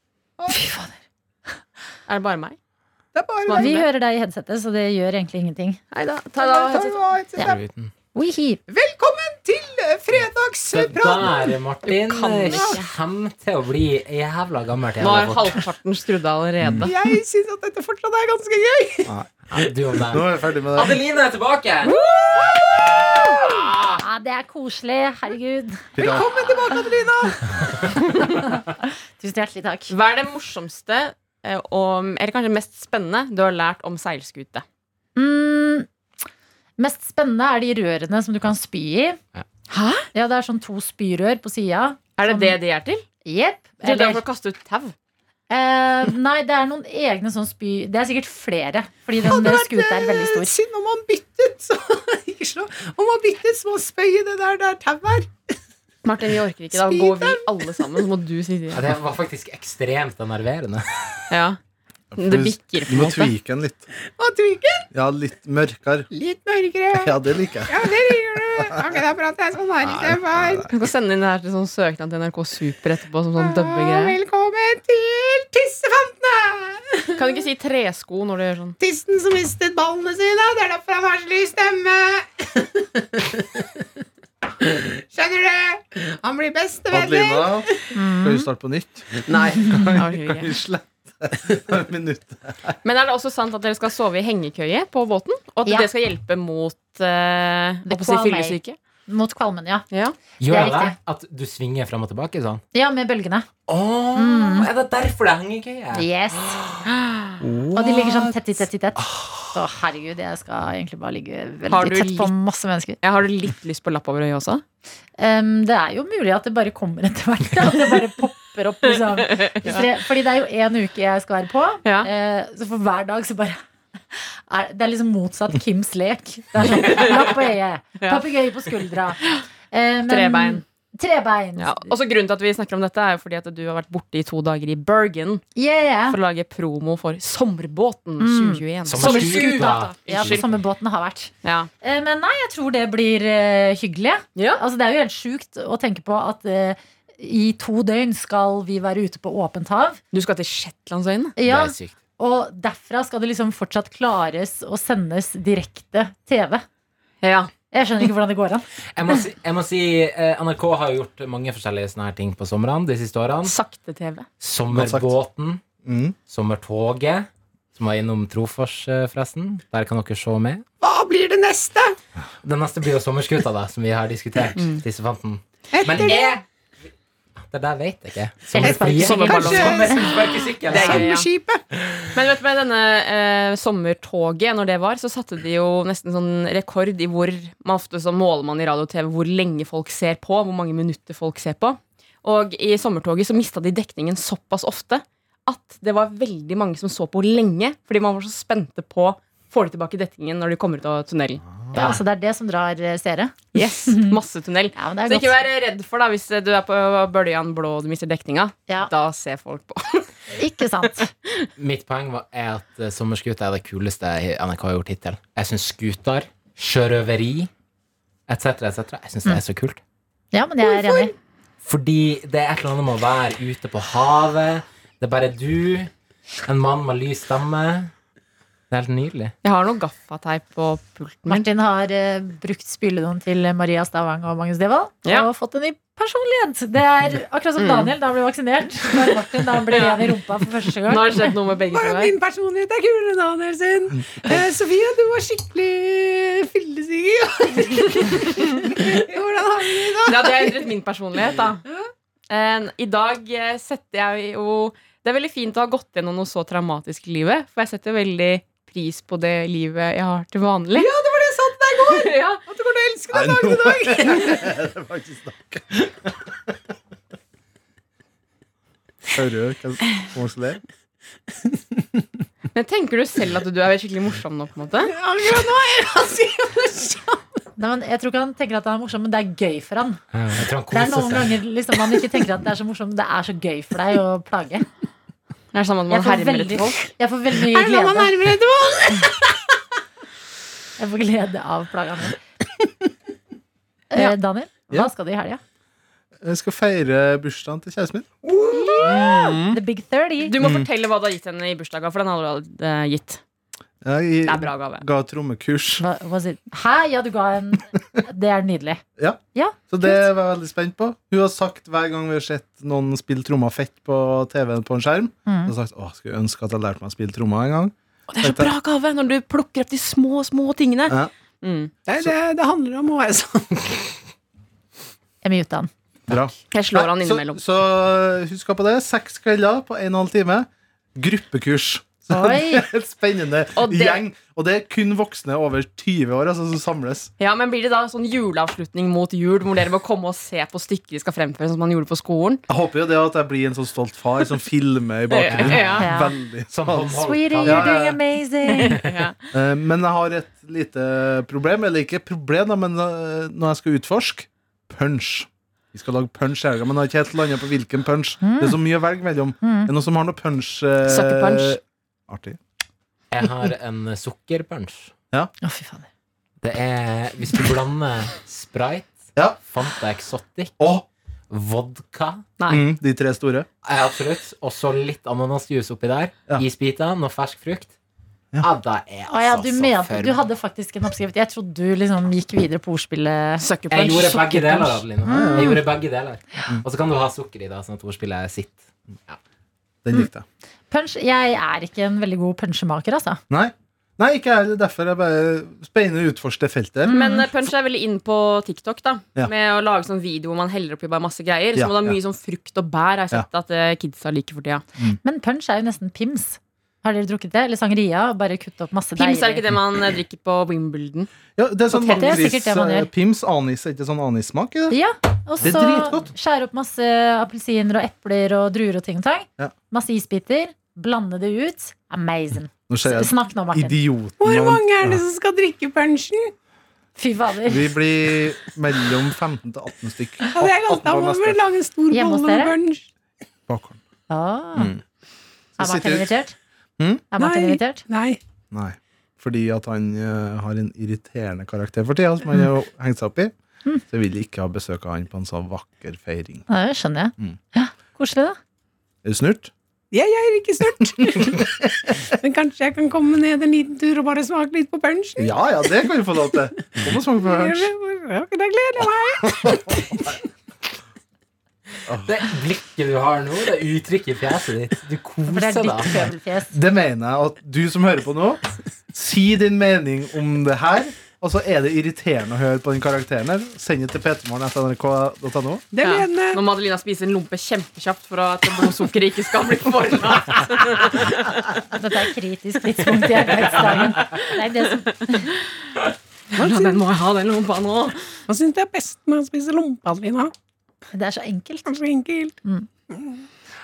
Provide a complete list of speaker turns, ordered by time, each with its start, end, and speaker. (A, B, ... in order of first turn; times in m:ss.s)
0:00.5-0:01.0 A
0:02.1-0:02.6 B
0:03.1-0:03.8 C
0:03.4-0:03.9 B
0:03.6-0:05.8 A
0:05.9-0:07.0 B
0:06.4-0:07.6 C
0:07.4-0:07.9 D
0:08.1-0:08.6 A
0:08.7-0:11.2 C
0:10.7-0:15.6 D
0:11.9-0:12.9 B
0:15.0-0:16.9 B
0:16.9-0:19.1 C
0:19.5-0:22.0 D
0:20.1-0:21.0 E
0:21.8-0:22.5 B
0:22.4-0:23.2 C
0:23.1-0:24.0 D
0:24.0-0:26.0 A
0:26.0-0:26.4 E
0:26.0-0:27.4 C
0:28.0-0:28.3 B
0:28.2-0:29.9 A
0:29.9-0:34.6 B
0:35.2-0:35.9 A
0:36.8-0:39.2 A
0:39.7-0:40.1 B
0:40.1-0:42.6 A
0:42.2-0:43.0 B
0:43.2-0:44.2 A
0:43.8-0:44.9 B
0:45.5-0:50.6 A
0:49.2-0:55.5 C
0:56.0-0:58.9 B
0:56.8-0:58.1 C
0:58.7-1:00.9 D
1:01.3-1:01.6 B
1:02.1-1:03.9 E
1:02.2-1:03.3 B
1:04.1-1:04.9 C
1:04.9-1:06.1 E
1:06.1-1:07.1 C
1:06.9-1:07.9 E
1:07.7-1:10.7 C
1:09.8-1:10.7 E
1:10.7-1:14.2 B
1:13.4-1:17.4 C
1:17.2-1:18.8 B
1:18.8-1:22.7 C
1:24.6-1:27.8 C
1:26.9-1:32.8 E
1:27.9-1:28.5 A
1:29.3-1:29.8 D
1:29.9-1:30.5 B
1:32.8-1:38.8 B
1:37.9-1:39.9 A
1:39.9-1:40.2 B
1:40.4-1:42.6 D
1:40.5-1:41.0 A
1:42.7-1:43.5 A
1:43.7-1:46.9 D
1:44.2-1:44.7 A
1:45.9-1:46.7 A
1:47.4-1:48.2 E
1:47.7-1:53.0 A
1:47.8-1:48.2 D
1:49.0-1:49.5 D
1:51.7-1:52.3 B
1:53.0-1:54.6 B
1:55.2-2:03.6 A
1:59.2-1:59.8 B
2:01.8-2:02.1 B
2:04.1-2:09.2 A
2:06.8-2:07.4 B
2:08.0-2:08.2 B
2:09.7-2:12.0 A
2:10.1-2:10.6 B
2:11.6-2:15.4 B
2:15.6-2:16.2 A
2:16.1-2:20.4 B
2:18.2-2:30.0 A
2:18.8-2:20.6 D
2:21.4-2:21.7 B
2:24.4-2:24.6 B
2:30.1-2:31.4 B
2:31.4-2:36.6 A
2:31.4-2:32.0 D
2:37.2-2:37.5 B
2:37.7-2:39.2 A
2:39.0-2:43.6 D
2:43.4-2:44.3 B
2:44.4-2:45.6 D
2:44.7-2:45.2 E
2:45.8-2:46.2 E
2:46.3-2:50.6 D
2:50.8-2:52.0 C
2:52.4-2:56.4 D
2:54.6-2:54.8 B
2:55.7-2:56.4 C
2:57.5-3:01.1 D
2:58.5-3:00.0 A
2:58.6-3:01.6 C
2:58.9-3:00.0 B
3:00.7-3:01.3 B
3:02.1-3:21.4 B
3:21.7-3:24.2 A
3:21.8-3:22.0 D
3:23.5-3:30.1 B
3:24.8-3:25.4 A
3:30.4-3:31.1 A
3:31.6-3:37.5 D
3:38.3-3:39.8 D
3:40.3-3:41.1 A
3:40.6-3:41.1 C
3:41.6-3:45.9 D
3:46.4-3:47.9 D
3:48.7-3:49.3 D
3:49.4-3:51.5 B
3:51.3-4:01.3 A
3:57.6-3:58.0 B
3:59.7-4:00.2 B
4:00.8-4:02.1 B
4:01.7-4:10.7 C
4:08.0-4:08.3 B
4:10.0-4:11.6 B
4:12.3-4:20.9 B
4:20.8-4:24.2 C
4:21.8-4:22.4 B
4:23.1-4:26.1 E
4:29.1-4:30.6 E
4:32.5-4:34.9 B
4:34.9-4:37.2 C
4:37.6-4:40.0 A
4:40.1-4:41.4 D
4:40.7-4:44.7 A
4:45.5-4:46.8 B
4:45.9-4:48.4 A
4:47.4-4:49.3 C
4:50.8-4:52.2 A
4:53.9-4:55.4 A
4:56.2-4:58.1 E
4:58.3-4:59.0 C
4:58.5-5:00.4 A
4:58.8-4:59.6 B
5:00.2-5:03.2 B
5:00.4-5:00.7 E
5:03.8-5:05.8 E
5:04.2-5:04.8 B
5:05.8-5:08.8 A
5:09.0-5:18.5 E
5:09.4-5:10.0 A
5:15.3-5:15.5 A
5:18.1-5:21.7 B
5:21.9-5:23.7 C
5:25.2-5:25.7 A
5:26.1-5:37.1 E
5:26.5-5:27.4 B
5:32.1-5:32.7 A
5:33.6-5:34.0 B
5:37.2-5:42.4 B
5:42.5-5:48.0 E
5:45.1-5:45.9 B
5:45.3-5:45.9 D
5:45.8-5:46.2 A
5:46.5-5:48.0 D
5:47.0-5:48.8 A
5:48.5-5:49.2 B
5:49.3-6:02.4 E
5:58.2-5:58.6 A
5:59.4-5:59.7 A
6:00.8-6:01.6 B
6:03.1-6:04.9 D
6:05.4-6:05.9 A
6:06.4-6:10.6 D
6:10.6-6:10.9 E
6:11.3-6:12.2 D
6:12.4-6:12.7 B
6:12.5-6:13.5 E
6:13.6-6:17.7 D
6:18.4-6:20.2 D
6:19.1-6:25.6 A
6:23.4-6:24.2 B
6:23.7-6:29.2 D
6:25.1-6:25.6 E
6:29.8-6:30.2 E
6:30.7-6:33.2 A
6:33.3-6:36.9 E
6:36.8-6:37.3 A
6:36.9-6:44.6 B
6:41.6-6:42.0 E
6:45.0-6:49.5 A
6:49.0-6:51.1 B
6:51.4-6:54.8 E
6:51.7-6:52.3 B
6:51.8-6:52.9 A
6:54.7-7:03.8 A
6:55.4-6:56.1 E
7:02.7-7:05.0 E
7:04.2-7:06.3 C
7:07.0-7:07.8 A
7:07.5-7:11.4 E
7:10.3-7:12.9 C
7:11.9-7:12.6 A
7:13.5-7:13.8 E
7:14.1-7:14.7 A
7:14.6-7:14.8 E
7:15.6-7:16.1 E
7:15.6-7:16.4 A
7:16.8-7:17.1 E
7:17.1-7:17.8 A
7:17.2-7:18.2 C
7:18.5-7:23.3 E
7:23.9-7:26.5 E
7:26.5-7:28.4 A
7:29.0-7:29.5 E
7:29.9-7:35.8 C
7:35.2-7:37.7 E
7:37.2-7:39.9 C
7:39.4-7:39.7 E
7:42.0-7:46.1 D
7:45.3-7:46.6 A
7:46.5-7:55.6 E
7:55.7-7:56.4 C
7:55.8-8:01.3 B
8:01.7-8:05.3 A
8:03.2-8:04.2 B
8:06.3-8:08.2 B
8:06.4-8:06.8 C
8:08.3-8:10.3 C
8:10.9-8:11.7 A
8:11.7-8:12.4 C